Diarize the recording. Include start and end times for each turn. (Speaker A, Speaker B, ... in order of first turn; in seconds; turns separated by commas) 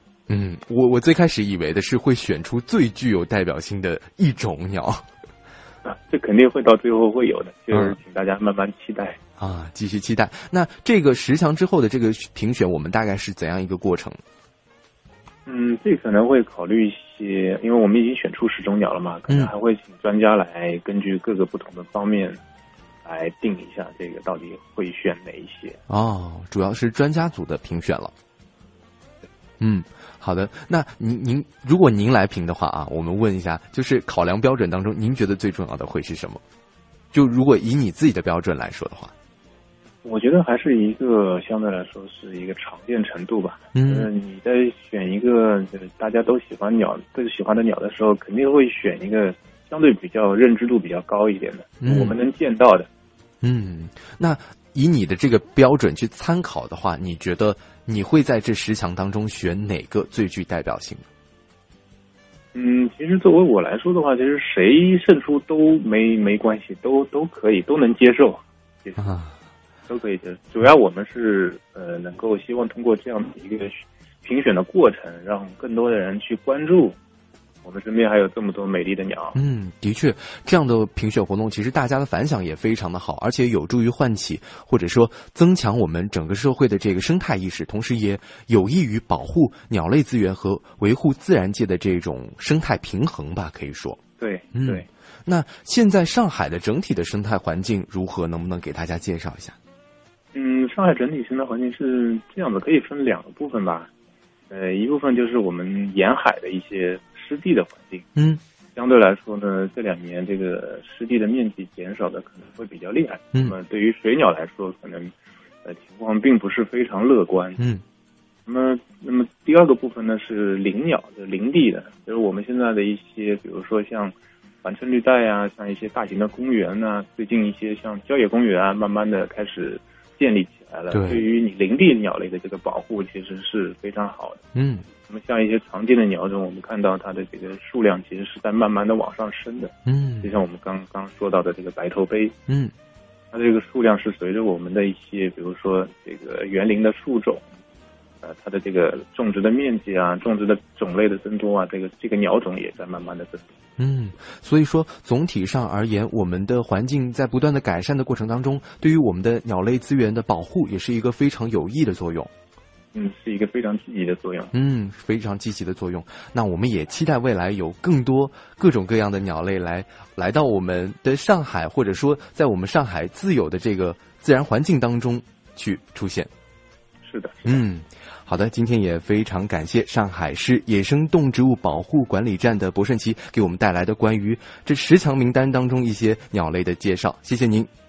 Speaker A: 0.3-5.1, Speaker B: 5.8-9.2, Speaker A: 7.7-8.0, Speaker A: 9.4-14.2, Speaker B: 15.4-22.4, Speaker A: 19.3-19.5, Speaker B: 23.1-25.8, Speaker A: 25.9-28.1, Speaker A: 29.6-36.4, Speaker A: 37.1-39.1, Speaker B: 40.0-52.9, Speaker A: 43.7-44.1, Speaker A: 51.8-52.2, Speaker A: 53.4-61.1, Speaker B: 62.5-69.1, Speaker A: 69.0-69.4, Speaker B: 69.9-77.0, Speaker B: 77.6-79.4, Speaker A: 79.3-94.0, Speaker B: 94.2-94.9, Speaker A: 94.5-99.6, Speaker B: 100.3-103.9, Speaker B: 104.5-108.1, Speaker A: 108.2-108.4, Speaker B: 108.7-115.1, Speaker B: 115.6-117.6, Speaker A: 117.6-117.8, Speaker B: 118.5-134.4, Speaker A: 130.9-131.2, Speaker A: 134.6-134.9, Speaker B: 135.0-142.3, Speaker A: 139.9-140.3, Speaker A: 142.5-142.7, Speaker B: 143.3-147.4, Speaker B: 148.2-153.6, Speaker A: 153.8-162.3, Speaker B: 162.9-164.5, Speaker A: 164.5-176.3, Speaker B: 177.1-177.6, Speaker A: 177.4-187.7